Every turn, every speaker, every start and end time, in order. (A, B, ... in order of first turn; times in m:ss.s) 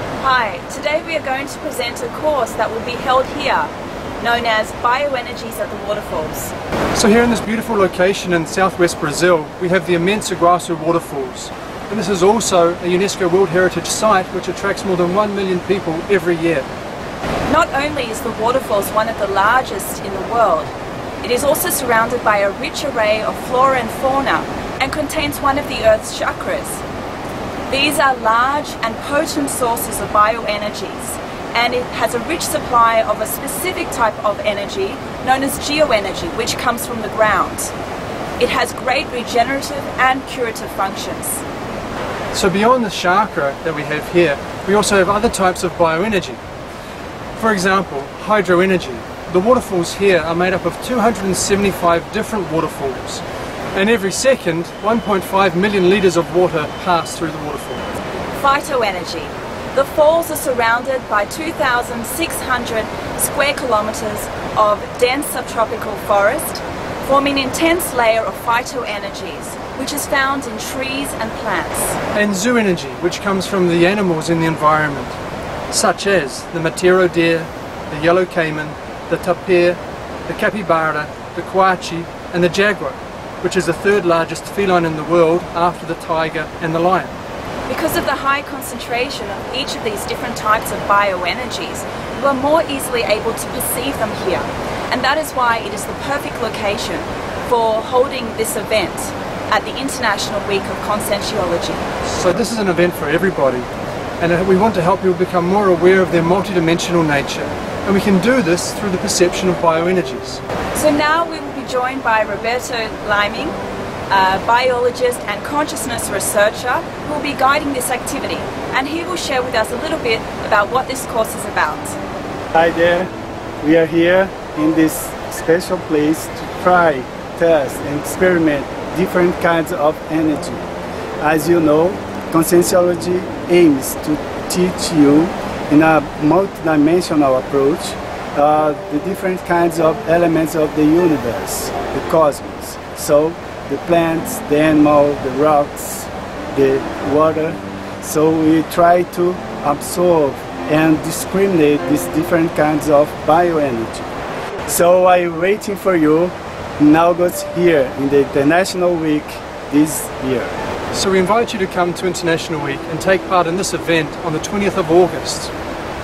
0:00.2-0:06.5 A
0:06.9-0:16.7 B
0:17.5-0:26.8 A
0:27.7-0:37.7 A
0:38.4-0:41.4 A
0:42.3-0:46.4 B
0:47.3-0:57.8 B
0:58.4-1:12.0 A
1:12.1-1:15.2 B
1:15.7-1:27.2 B
1:27.7-1:41.8 A
1:42.0-1:43.7 B
1:44.2-1:50.4 B
1:50.7-1:53.6 A
1:54.1-2:02.0 A
2:02.5-2:10.6 C
2:11.2-2:34.1 C
2:34.7-2:40.5 C
2:40.9-2:45.5 B